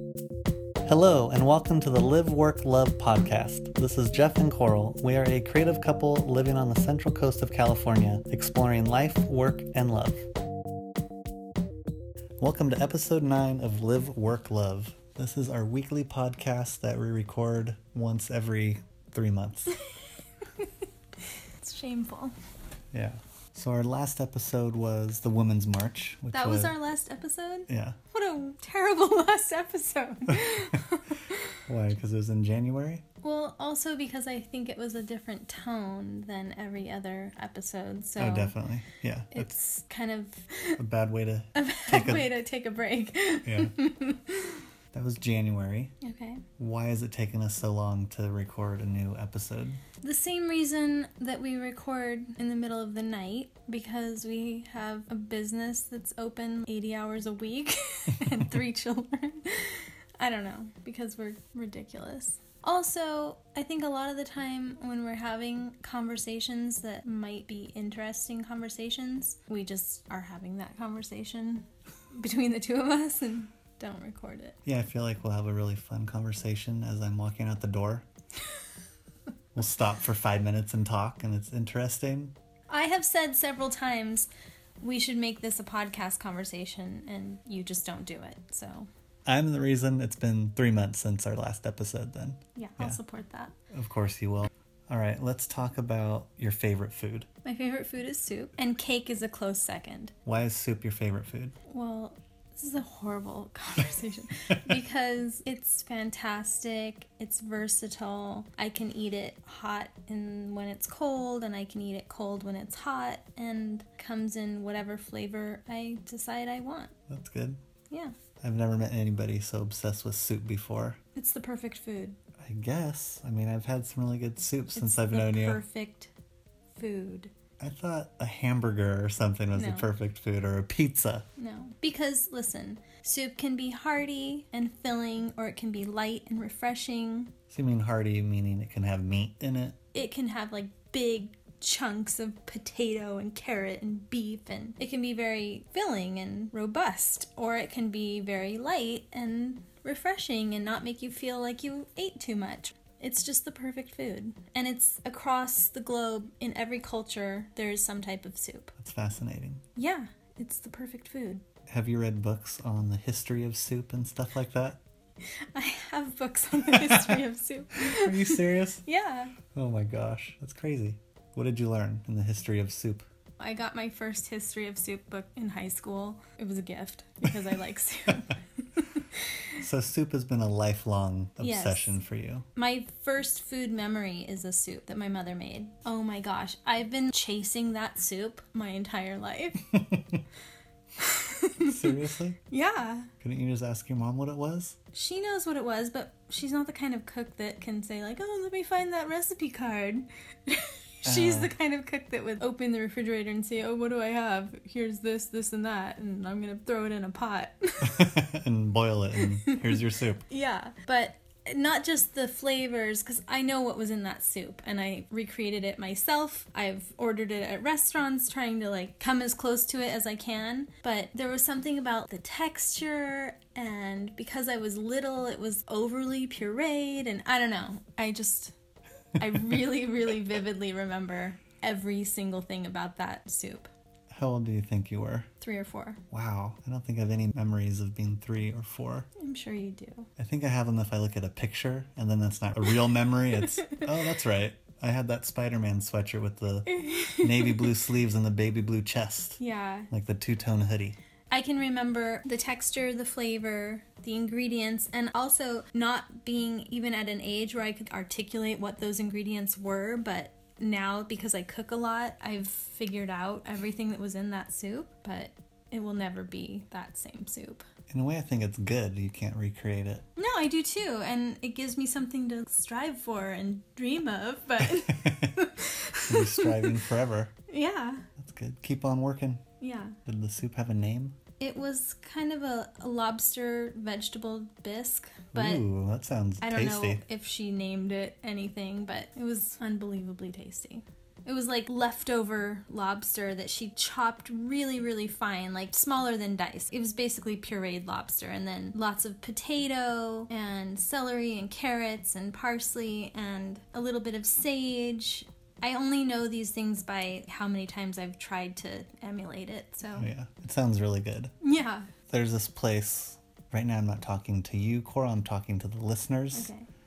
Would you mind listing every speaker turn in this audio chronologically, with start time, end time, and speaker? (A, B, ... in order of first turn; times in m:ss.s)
0:00.8-0:10.2 A
0:12.4-0:19.8 A
0:21.6-0:22.3 B
0:22.9-0:26.8 A
0:26.3-0:31.6 B
0:27.7-0:28.0 A
0:30.3-0:30.7 A
0:31.7-0:33.0 A
0:33.2-0:38.5 B
0:38.2-0:39.5 A
0:39.3-0:40.8 B
0:40.8-0:42.3 A
0:41.5-0:44.6 B
0:43.4-0:43.7 A
0:44.9-0:45.9 A
0:46.0-0:46.4 B
0:46.6-0:49.8 A
0:50.0-1:14.6 B
1:14.6-1:18.0 A
1:19.5-1:22.3 A
1:22.7-1:24.3 B
1:24.8-1:28.9 B
1:29.2-1:33.0 A
1:32.6-1:33.5 B
1:33.7-1:37.3 A
1:37.4-1:40.1 B
1:40.2-1:41.5 A
1:41.7-1:57.0 B
1:57.1-1:57.6 A
1:58.4-2:01.0 A
2:01.1-2:02.2 B
2:02.4-2:05.6 A
2:04.8-2:06.1 B
2:06.7-2:07.3 B
2:07.6-2:11.2 A
2:09.5-2:09.9 B
2:11.4-2:17.3 B
2:17.5-2:19.8 A
2:19.9-2:38.7 B
2:38.8-2:39.6 A
2:39.8-2:41.4 B
2:41.7-2:44.8 A
2:45.5-2:49.4 B
2:46.5-2:47.2 A
2:47.8-2:48.8 A
2:49.5-2:53.0 A
2:53.4-2:59.4 B
2:59.6-3:02.4 A
3:01.4-3:02.0 B
3:02.6-3:09.6 B
3:09.7-3:10.2 A
3:11.0-3:13.1 B
3:11.6-3:12.4 A
3:13.2-3:14.8 A
3:14.9-3:28.1 B
3:21.0-3:21.5 A
3:27.8-3:30.2 A
3:30.3-3:48.5 B
3:49.2-3:53.7 B
3:54.1-3:55.3 A
3:55.4-3:56.0 B
3:56.1-3:59.1 A
3:59.2-4:00.1 B
4:00.2-4:09.4 A
4:03.4-4:03.8 B
4:06.7-4:07.7 B
4:09.4-4:09.9 B
4:09.9-4:11.0 A
4:11.3-4:27.6 B
4:27.9-4:30.0 A
4:30.2-4:36.8 B
4:34.6-4:35.4 A
4:36.0-4:37.3 A
4:37.5-4:38.0 B
4:38.2-4:39.4 A
4:39.6-4:40.0 B
4:40.0-4:41.1 A
4:41.4-4:45.6 B
4:45.3-4:47.0 A
4:46.4-5:10.1 B
5:09.9-5:11.3 A
5:11.4-5:11.9 B
5:12.1-5:16.5 A
5:16.3-5:16.6 B